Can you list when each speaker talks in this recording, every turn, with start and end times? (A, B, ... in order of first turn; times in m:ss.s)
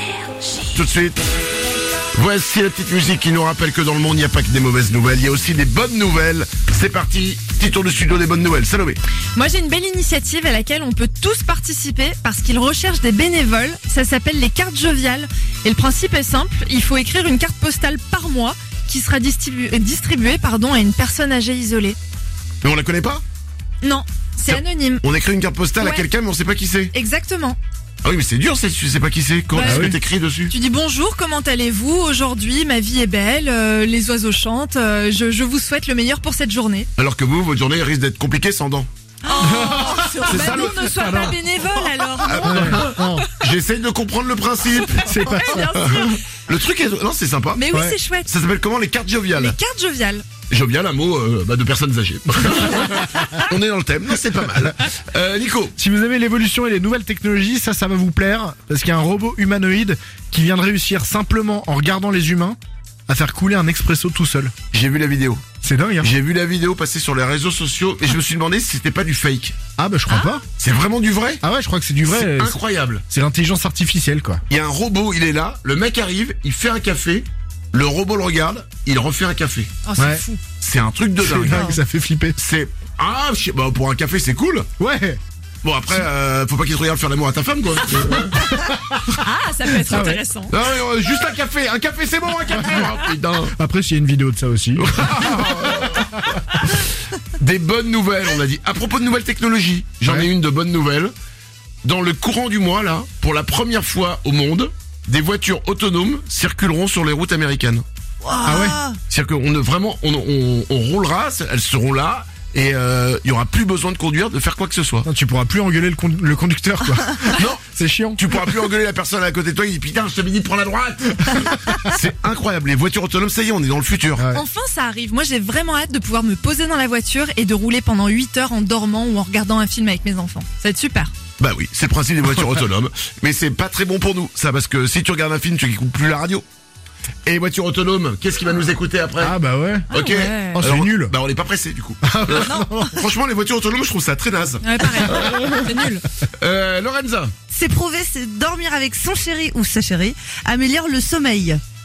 0:00.7-0:01.2 A
0:02.1-0:09.0 A
0:09.3-0:22.0 B
0:22.6-0:23.2 A
0:23.8-0:25.0 B
0:24.5-0:26.9 A
0:25.8-0:26.0 B
0:26.9-0:27.6 B
0:28.0-0:30.5 A
0:29.5-0:29.9 B
0:29.6-0:30.0 C
0:30.5-0:36.9 B
0:37.0-0:38.9 A
0:39.2-0:42.6 B
0:39.4-0:40.4 D
0:39.4-0:41.4 C
0:42.2-0:45.1 A
0:42.4-0:43.2 C
0:44.9-0:46.2 B
0:45.0-0:45.8 C
0:45.7-0:47.6 A
0:47.5-0:48.3 B
0:47.7-0:48.0 C
0:48.2-0:49.6 A
0:49.4-0:50.2 B
0:50.5-0:55.8 A
0:55.8-1:04.5 C
1:04.7-1:05.5 A
1:05.6-1:06.1 C
1:06.0-1:09.6 A
1:09.8-1:10.4 C
1:10.6-1:11.4 A
1:11.4-1:12.6 C
1:12.0-1:13.0 A
1:13.1-1:14.4 C
1:14.5-1:19.7 A
1:19.8-1:20.4 B
1:20.0-1:20.2 C
1:20.6-1:21.6 A
1:21.2-1:22.4 C
1:21.5-1:21.8 B
1:22.4-1:24.7 A
1:24.8-1:25.2 C
1:25.6-1:28.4 A
1:28.3-1:29.0 C
1:29.0-1:30.5 B
1:29.9-1:30.2 C
1:30.5-1:33.6 A
1:32.5-1:32.8 C
1:33.5-1:36.0 C
1:34.8-1:36.1 A
1:37.4-1:41.1 A
1:41.8-1:47.8 A
1:48.2-1:49.0 D
1:48.4-1:48.8 C
1:49.1-1:55.1 A
1:55.0-1:58.2 C
1:58.2-2:04.2 A
2:04.2-2:04.4 C
2:04.3-2:11.1 B
2:11.4-2:16.4 A
2:17.2-2:19.3 A
2:19.2-2:19.9 C
2:19.9-2:20.6 B
2:19.9-2:22.5 A
2:20.5-2:21.1 C
2:22.0-2:23.0 C
2:22.4-2:22.9 D
2:23.0-2:25.3 A
2:24.6-2:26.0 B
2:26.4-2:27.3 A
2:27.5-2:31.6 D